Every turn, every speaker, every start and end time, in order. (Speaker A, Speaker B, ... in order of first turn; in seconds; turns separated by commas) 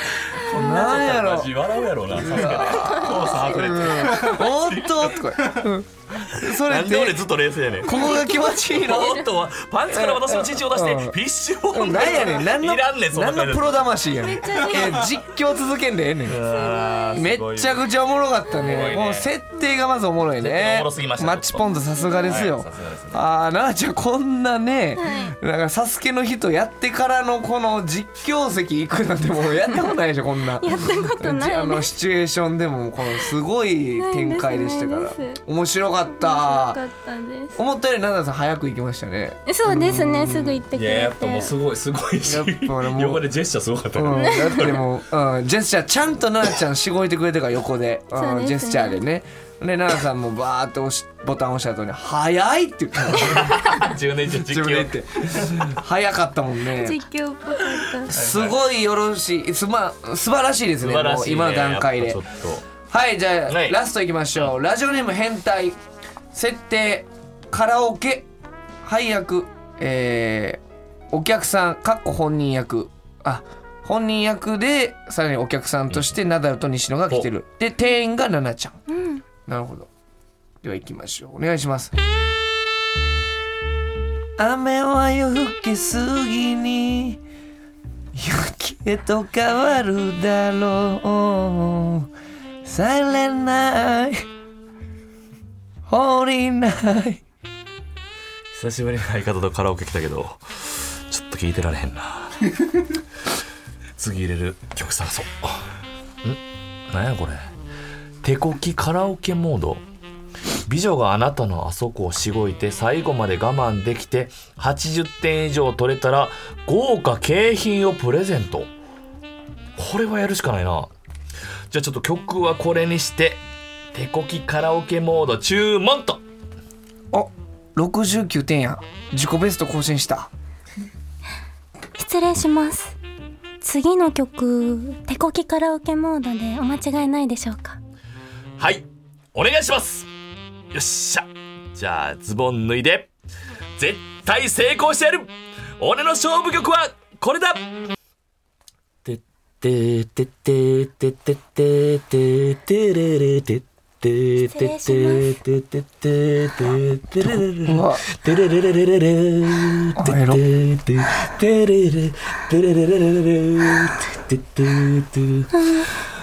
Speaker A: 0.3-5.6, Speaker B: 0.5-1.6, Speaker B: 2.1-7.2, Speaker C: 2.6-4.3, Speaker A: 6.3-13.9, Speaker B: 7.8-9.2, Speaker C: 7.9-9.3, Speaker B: 9.9-11.2, Speaker B: 11.7-16.4, Speaker C: 14.2-15.1, Speaker A: 14.6-15.1, Speaker A: 16.3-17.9, Speaker C: 16.4-17.2, Speaker B: 17.1-36.8, Speaker A: 18.5-19.3, Speaker A: 20.4-21.7, Speaker C: 21.9-22.4, Speaker A: 22.2-23.2, Speaker C: 25.0-25.4, Speaker C: 30.6-31.9, Speaker C: 34.0-35.4, Speaker C: 36.1-37.6, Speaker B: 37.6-40.6, Speaker C: 39.5-41.5, Speaker A: 40.7-44.8, Speaker B: 42.2-43.2, Speaker B: 43.9-57.0, Speaker C: 44.1-44.8, Speaker C: 48.2-49.0, Speaker A: 53.1-55.7, Speaker C: 56.7-58.1, Speaker B: 58.1-62.2, Speaker A: 58.1-58.6, Speaker A: 60.8-62.6, Speaker B: 62.9-65.8, Speaker A: 63.5-63.8, Speaker B: 66.3-68.3, Speaker B: 68.8-78.8, Speaker C: 78.9-79.2, Speaker B: 79.5-79.9, Speaker B: 80.6-81.9, Speaker B: 84.4-87.2, Speaker B: 88.1-92.1, Speaker B: 92.6-94.2, Speaker B: 95.9-97.2, Speaker A: 98.5-103.0, Speaker A: 104.0-105.7, Speaker A: 106.2-107.4, Speaker A: 108.2-109.8, Speaker A: 110.7-118.7, Speaker A: 119.8-120.9, Speaker A: 121.7-126.2, Speaker B: 127.1-130.3, Speaker C: 132.0-133.0, Speaker C: 133.6-137.8, Speaker A: 138.6-140.1, Speaker A: 140.7-143.1, Speaker A: 143.8-147.7, Speaker A: 149.1-165.9, Speaker C: 154.5-155.4, Speaker B: 157.6-158.1, Speaker B: 159.9-160.4, Speaker C: 165.5-165.9